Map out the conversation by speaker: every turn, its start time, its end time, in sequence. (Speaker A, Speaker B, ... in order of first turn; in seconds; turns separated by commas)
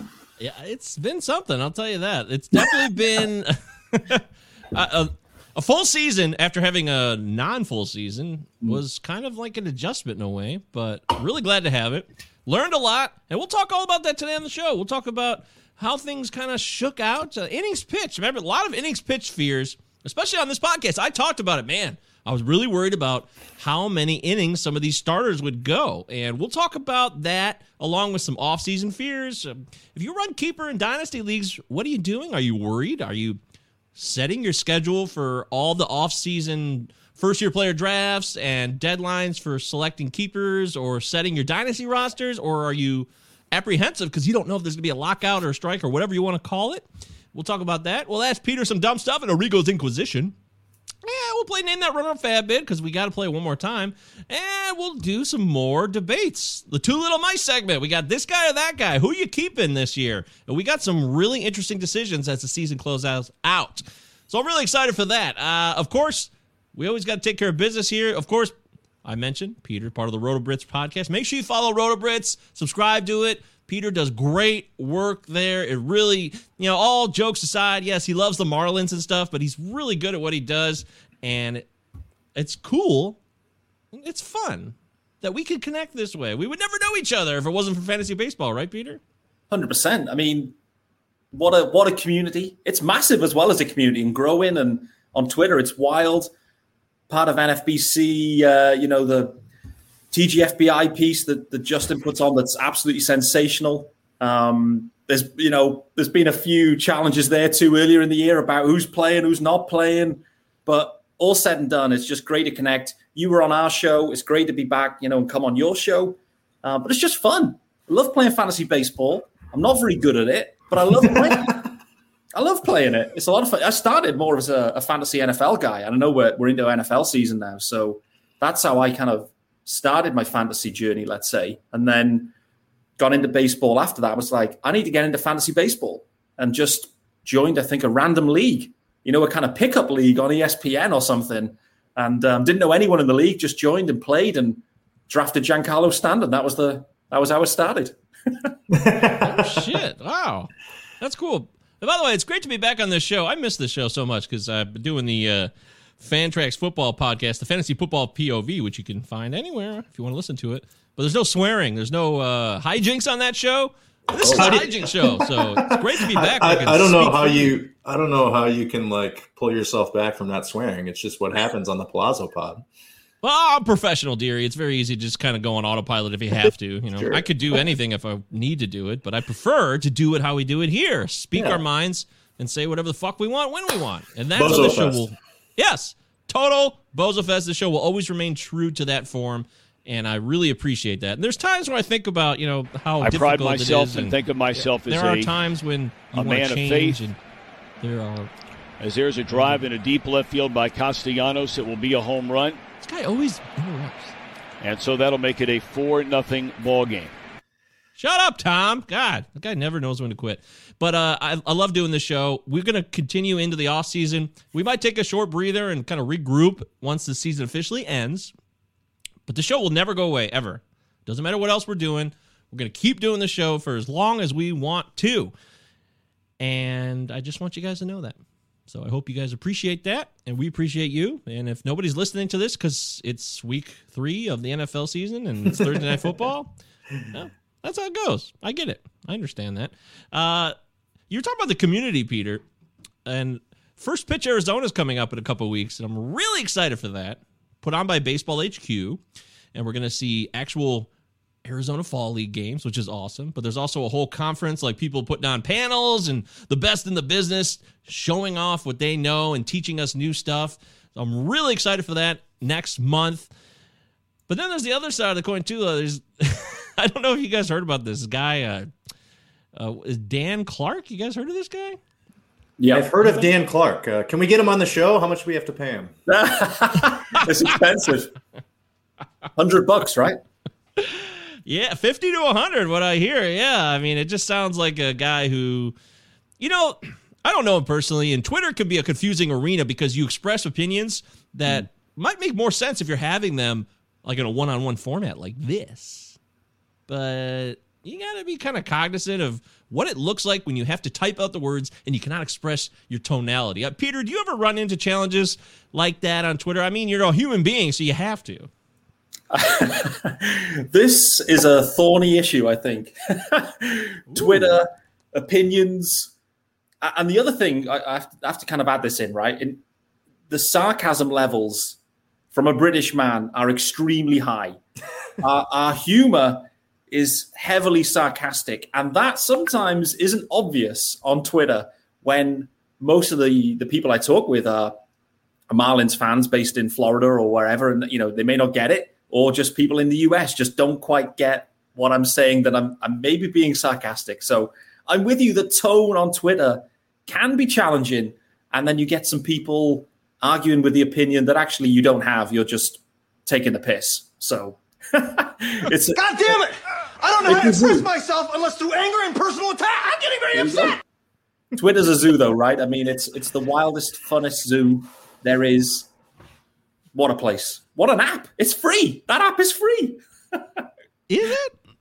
Speaker A: 0.4-33.4, Speaker A: 34.0-50.3, Speaker A: 51.0-68.5, Speaker A: 69.0-81.7, Speaker A: 82.3-83.2, Speaker A: 83.9-89.0, Speaker B: 89.5-90.5, Speaker B: 91.3-96.3, Speaker B: 97.1-99.4, Speaker B: 100.1-121.7, Speaker C: 121.1-121.5, Speaker B: 122.3-132.3, Speaker B: 133.0-147.9, Speaker C: 148.7-149.6, Speaker A: 149.2-150.5, Speaker A: 151.0-167.5, Speaker C: 164.2-172.6, Speaker A: 173.2-197.2, Speaker C: 176.9-177.2, Speaker C: 181.3-181.6, Speaker C: 184.3-185.1, Speaker D: 193.0-195.3, Speaker D: 196.1-197.0, Speaker A: 197.8-198.3, Speaker D: 198.8-202.6, Speaker A: 199.3-199.6, Speaker A: 202.8-204.1, Speaker D: 204.6-207.1, Speaker A: 208.0-218.3, Speaker A: 219.3-225.3, Speaker A: 226.4-236.5, Speaker C: 235.5-236.1, Speaker A: 237.1-240.5, Speaker A: 241.1-242.4, Speaker A: 243.1-249.0, Speaker A: 249.5-250.9, Speaker A: 251.4-263.3, Speaker A: 264.3-268.7, Speaker A: 269.6-271.8, Speaker B: 272.6-272.9, Speaker C: 272.7-275.9, Speaker B: 276.1-278.1, Speaker B: 279.4-280.2, Speaker A: 280.8-285.7, Speaker A: 286.4-296.1, Speaker A: 296.9-308.5, Speaker B: 309.3-316.1, Speaker A: 314.1-314.5, Speaker B: 316.8-319.6, Speaker B: 320.3-321.8, Speaker B: 322.3-324.6, Speaker B: 325.2-334.8, Speaker B: 335.5-356.4, Speaker E: 355.9-360.8, Speaker B: 357.2-357.9, Speaker B: 360.3-360.7, Speaker B: 361.6-365.9, Speaker B: 366.9-370.6, Speaker A: 371.1-371.6